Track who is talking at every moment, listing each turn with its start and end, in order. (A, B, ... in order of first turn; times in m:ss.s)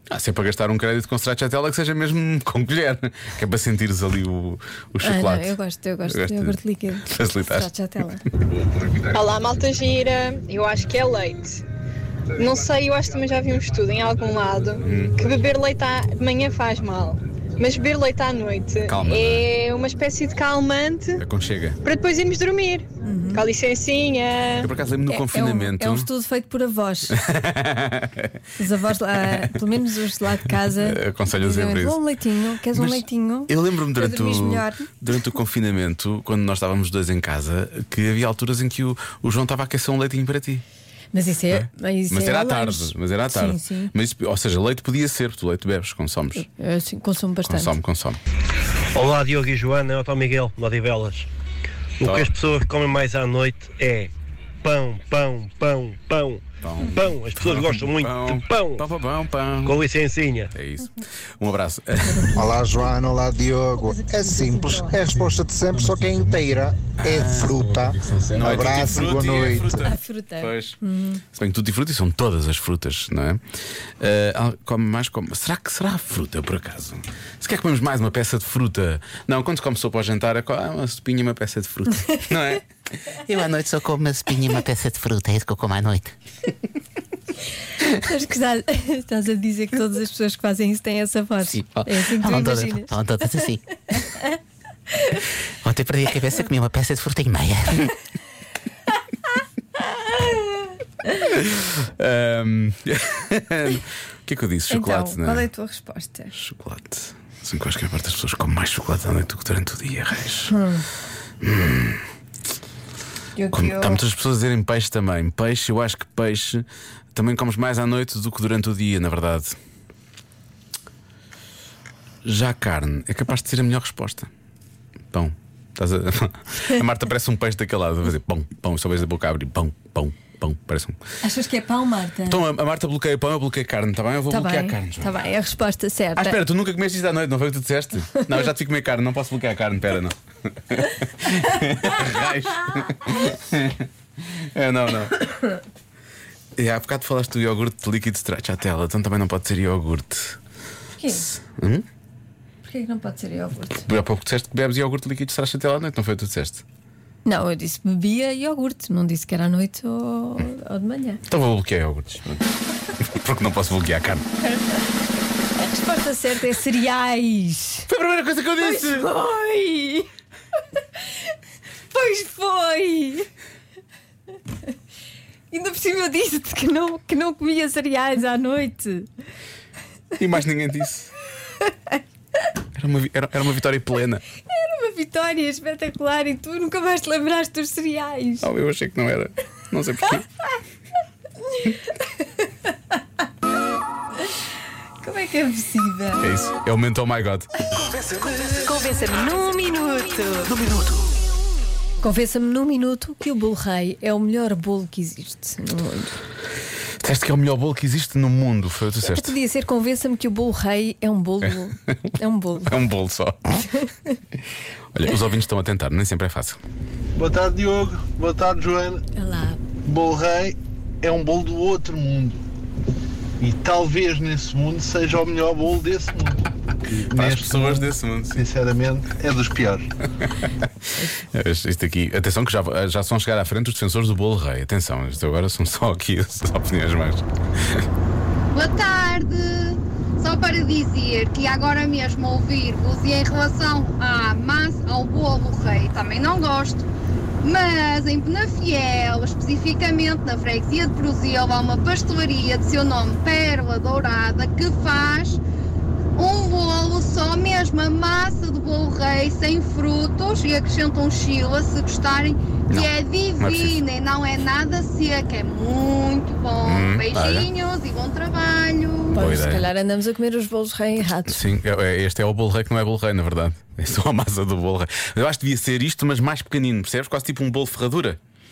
0:00.1-0:07.7 A
0:05.0-0:08.2 B
0:08.3-0:09.2 A
0:09.1-0:11.6 C
0:12.4-0:21.2 C
0:14.8-0:15.2 A
0:18.9-0:19.5 A
0:21.2-0:21.8 A
0:21.8-0:24.7 C
0:23.0-0:23.4 B
0:24.6-0:26.1 A
0:25.1-0:27.2 B
0:27.1-0:28.3 A
0:28.6-0:34.9 B
0:29.2-0:29.6 A
0:30.7-0:32.0 A
0:32.7-0:40.6 A
0:41.1-0:43.9 B
0:41.5-0:46.5 A
0:46.4-0:47.7 B
0:47.5-0:48.2 A
0:49.0-0:51.3 D
0:52.0-0:54.1 D
0:52.0-0:52.4 A
0:54.6-0:58.8 D
0:56.6-0:59.8 A
0:59.6-1:00.5 D
1:00.5-1:02.3 A
1:02.1-1:02.7 B
1:02.3-1:09.9 E
1:03.7-1:05.1 B
1:06.9-1:07.7 A
1:08.3-1:10.8 A
1:09.8-1:11.2 B
1:11.3-1:13.4 A
1:14.0-1:24.7 A
1:24.6-1:26.0 F
1:27.9-1:34.2 B
1:32.2-1:33.6 F
1:36.0-1:37.3 F
1:41.2-1:45.5 A
1:44.7-1:46.3 B
1:46.3-1:50.6 A
1:50.5-1:50.8 B
1:51.4-1:52.0 A
1:53.4-1:54.0 B
1:53.5-1:59.6 A
2:02.2-2:04.3 A
2:05.1-2:11.0 A
2:11.2-2:12.4 B
2:12.3-2:15.2 A
2:14.3-2:16.4 B
2:16.2-2:25.2 A
2:26.6-2:30.4 A
2:31.0-2:31.3 B
2:31.4-2:31.8 A
2:32.6-2:33.8 B
2:33.8-2:36.6 A
2:37.2-2:41.2 B
2:41.3-2:42.5 A
2:43.1-2:44.2 A
2:45.6-2:47.9 B
2:47.9-2:49.1 A
2:48.6-2:50.1 B
2:51.9-2:53.3 B
2:55.5-2:59.1 B
3:00.2-3:01.1 A
3:02.8-3:04.2 A
3:04.5-3:08.5 B
3:08.4-3:10.3 A
3:15.0-3:16.3 B
3:16.2-3:17.5 A
3:18.1-3:20.6 B
3:22.0-3:26.2 B
3:27.0-3:29.4 A
3:29.0-3:32.7 B
3:31.4-3:33.7 A
3:34.9-3:36.6 A
3:37.2-3:39.0 G
3:39.2-3:39.6 B
3:39.8-3:42.4 G
3:43.4-3:49.9 G
3:47.1-3:48.4 A
3:51.3-3:57.8 A
3:58.5-4:06.9 H
4:07.4-4:15.4 H
4:16.2-4:29.2 H
4:22.7-4:23.8 A
4:26.6-4:27.5 A
4:29.1-4:31.5 B
4:29.2-4:29.6 A
4:31.2-4:38.2 A